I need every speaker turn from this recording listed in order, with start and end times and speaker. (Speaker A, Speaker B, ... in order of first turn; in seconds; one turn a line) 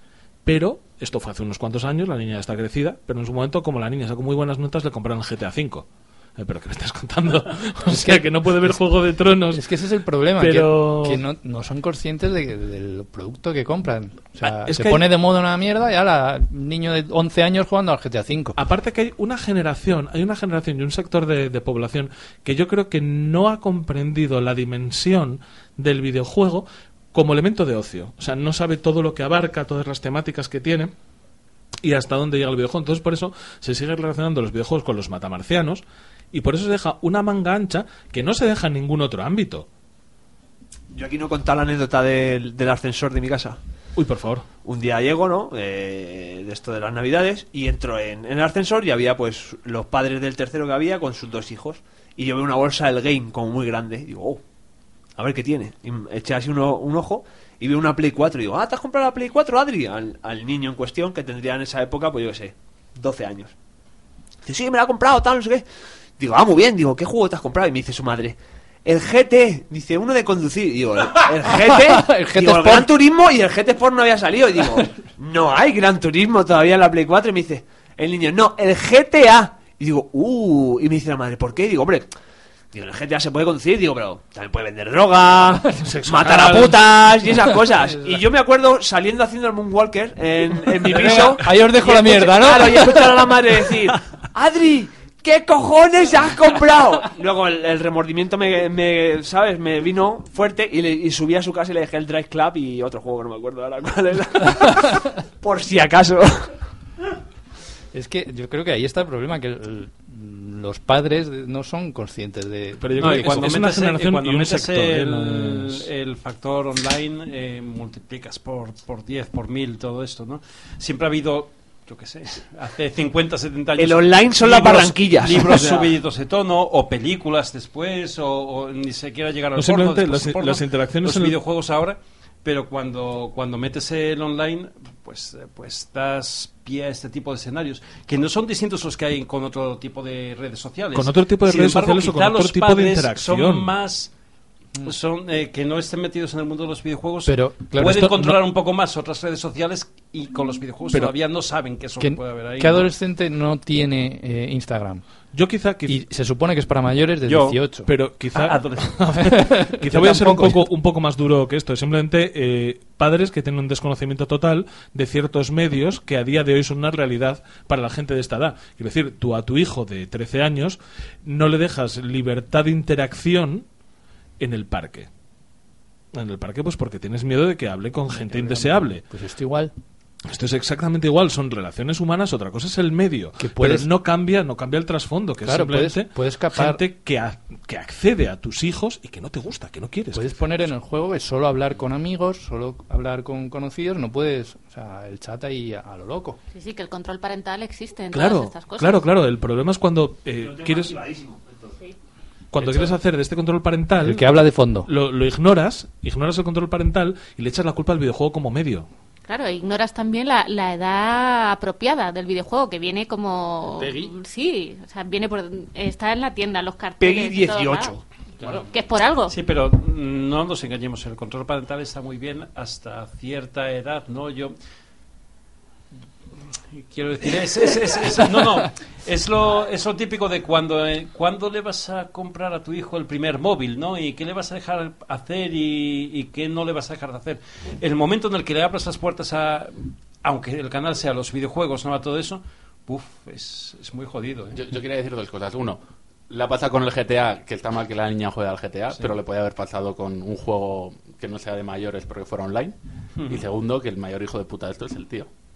Speaker A: 0.5-5.9
Speaker A: 6.4-9.7
Speaker B: 7.9-8.8
Speaker B: 9.5-18.6
Speaker A: 10.4-11.2
Speaker A: 14.4-15.1
Speaker A: 18.6-30.9
Speaker A: 31.8-39.7
Speaker C: 40.9-43.6
Speaker A: 44.0-44.5
Speaker C: 44.6-54.4
Speaker C: 55.2-63.5
Speaker C: 64.4-65.7
Speaker C: 66.2-82.1
Speaker B: 71.5-72.9
Speaker C: 82.7-106.5
Speaker A: 85.8-86.8
Speaker B: 90.8-93.3
Speaker A: 90.9-91.4
Speaker B: 107.9-113.5
Speaker A: 112.8-115.8
Speaker D: 113.0-144.1
Speaker C: 123.8-125.9
Speaker A: 129.6-131.4
Speaker A: 140.9-143.7
Speaker D: 144.8-152.9
Speaker B: 147.3-148.2
Speaker A: 147.8-148.4
Speaker B: 152.0-155.0
Speaker A: 155.3-156.0
Speaker B: 155.9-157.9
Speaker D: 157.3-157.6
Speaker A: 157.9-173.7
Speaker D: 158.3-159.2
Speaker B: 159.3-160.6
Speaker D: 159.9-160.4
Speaker A: 174.4-175.1
Speaker A: 176.1-179.0
Speaker B: 178.3-179.7
Speaker A: 180.3-190.6
Speaker B: 183.4-183.9
Speaker B: 185.4-186.8
Speaker B: 190.1-196.4
Speaker E: 196.5-199.1
Speaker A: 198.1-201.0
Speaker C: 200.4-201.7
Speaker A: 202.5-204.3
Speaker C: 202.6-202.9
Speaker B: 204.0-204.9
Speaker A: 204.9-208.9
Speaker E: 209.3-218.0
Speaker B: 213.8-214.1
Speaker C: 217.0-218.0
Speaker E: 218.7-219.4
Speaker D: 219.3-224.6
Speaker D: 226.7-244.6
Speaker F: 244.5-252.8
Speaker F: 253.3-255.3